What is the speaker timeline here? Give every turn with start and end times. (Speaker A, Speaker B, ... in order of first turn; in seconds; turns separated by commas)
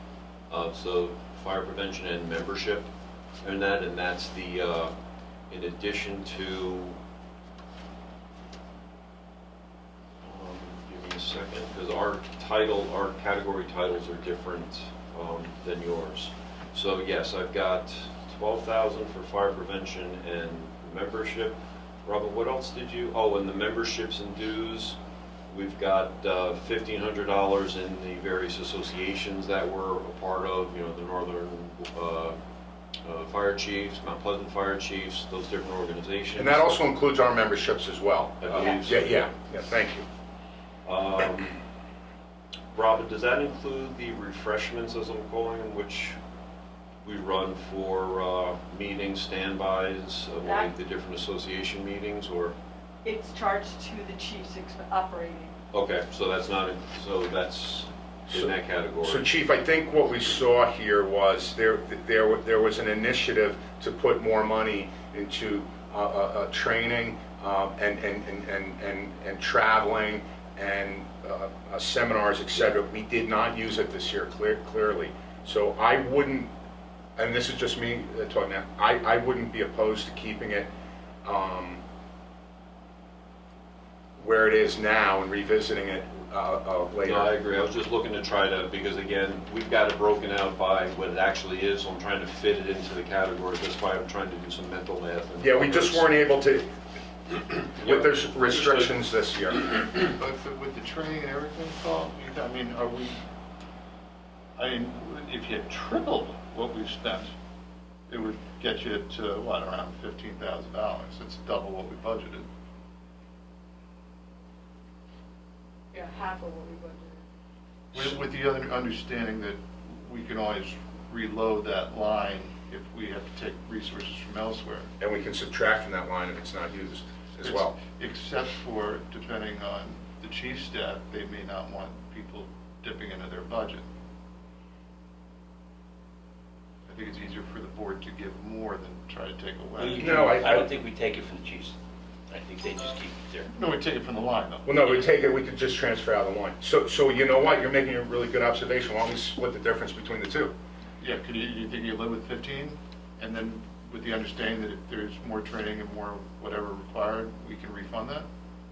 Speaker A: 0.5-2.9, Speaker A: 3.4-4.9, Speaker A: 5.5-7.0, Speaker A: 10.2-25.0, Speaker A: 25.5-32.4, Speaker A: 33.0-36.7, Speaker B: 36.4-40.0, Speaker A: 38.4-39.1, Speaker A: 40.8-41.6, Speaker A: 42.7-46.2, Speaker A: 47.0-52.5, Speaker C: 50.4-50.7, Speaker C: 53.0-55.5, Speaker A: 55.7-59.3, Speaker B: 59.0-76.5, Speaker B: 77.2-80.7, Speaker B: 81.2-81.8, Speaker B: 84.2-87.3, Speaker A: 87.0-96.1, Speaker B: 95.4-96.7, Speaker A: 97.8-98.9, Speaker B: 97.8-99.8, Speaker D: 100.1-103.2, Speaker D: 104.5-107.3, Speaker D: 108.1-112.5, Speaker C: 115.9-117.2, Speaker D: 117.9-124.9, Speaker B: 125.0-127.7, Speaker D: 127.4-133.8, Speaker D: 136.8-140.3, Speaker E: 139.8-141.7, Speaker B: 140.0-140.7, Speaker E: 142.3-143.5, Speaker D: 143.5-144.8, Speaker B: 144.6-150.5, Speaker D: 151.0-158.2